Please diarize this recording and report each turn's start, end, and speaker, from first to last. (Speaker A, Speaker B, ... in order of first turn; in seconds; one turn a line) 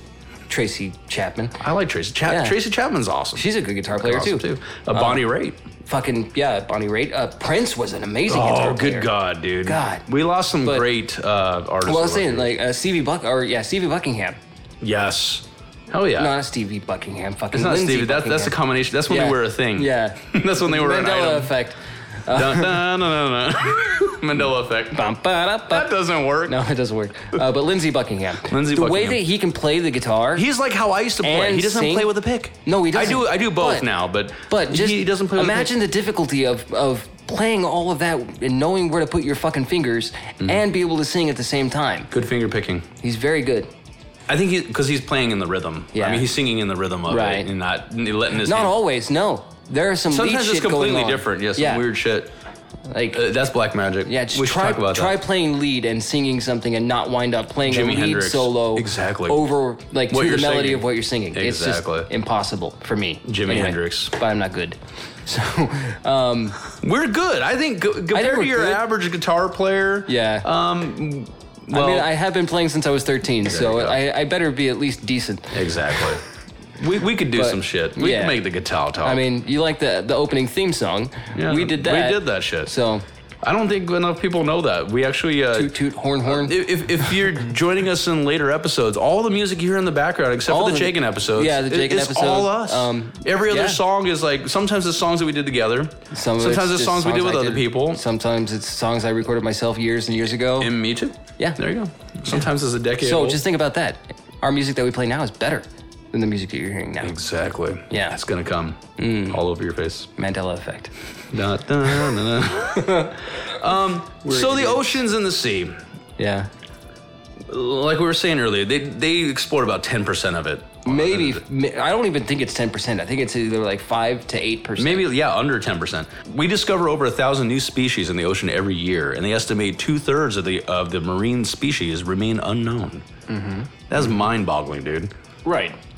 Speaker A: 0.5-1.6
Speaker B: 1.6-5.6
Speaker A: 2.3-2.6
Speaker A: 3.4-5.2
Speaker A: 5.8-9.1
Speaker B: 8.3-12.5
Speaker A: 9.7-10.1
Speaker A: 11.8-14.4
Speaker B: 14.8-16.4
Speaker A: 16.2-18.6
Speaker B: 17.5-21.5
Speaker A: 19.1-22.9
Speaker B: 22.3-25.0
Speaker A: 24.9-25.9
Speaker B: 25.7-26.6
Speaker A: 26.5-30.5
Speaker B: 28.5-29.2
Speaker B: 30.4-35.7
Speaker A: 31.2-32.1
Speaker A: 32.6-33.9
Speaker A: 34.5-42.1
Speaker B: 42.1-42.9
Speaker A: 43.0-43.7
Speaker B: 44.3-48.8
Speaker A: 45.9-46.3
Speaker A: 47.1-47.5
Speaker A: 48.4-51.9
Speaker B: 50.1-52.3
Speaker A: 52.9-53.2
Speaker B: 53.1-55.2
Speaker A: 54.0-66.7
Speaker B: 57.6-59.4
Speaker B: 60.1-62.1
Speaker B: 63.2-64.1
Speaker B: 66.7-72.1
Speaker A: 68.1-68.8
Speaker A: 70.1-70.5
Speaker A: 71.7-76.2
Speaker B: 73.4-74.0
Speaker B: 75.5-76.2
Speaker B: 76.8-79.2
Speaker A: 77.3-78.4
Speaker A: 79.0-83.0
Speaker B: 81.3-82.7
Speaker B: 83.4-98.0
Speaker A: 85.5-86.6
Speaker A: 90.5-93.8
Speaker A: 96.1-100.7
Speaker B: 100.6-103.4
Speaker A: 103.0-107.1
Speaker B: 107.0-110.1
Speaker A: 107.9-108.2
Speaker A: 109.0-109.4
Speaker A: 110.2-110.9
Speaker B: 111.3-115.8
Speaker A: 112.7-113.4
Speaker A: 114.2-115.0
Speaker A: 116.2-116.5
Speaker B: 117.5-121.4
Speaker A: 120.8-125.1
Speaker B: 124.8-133.0
Speaker A: 133.3-134.1
Speaker B: 133.9-135.1
Speaker A: 135.4-135.8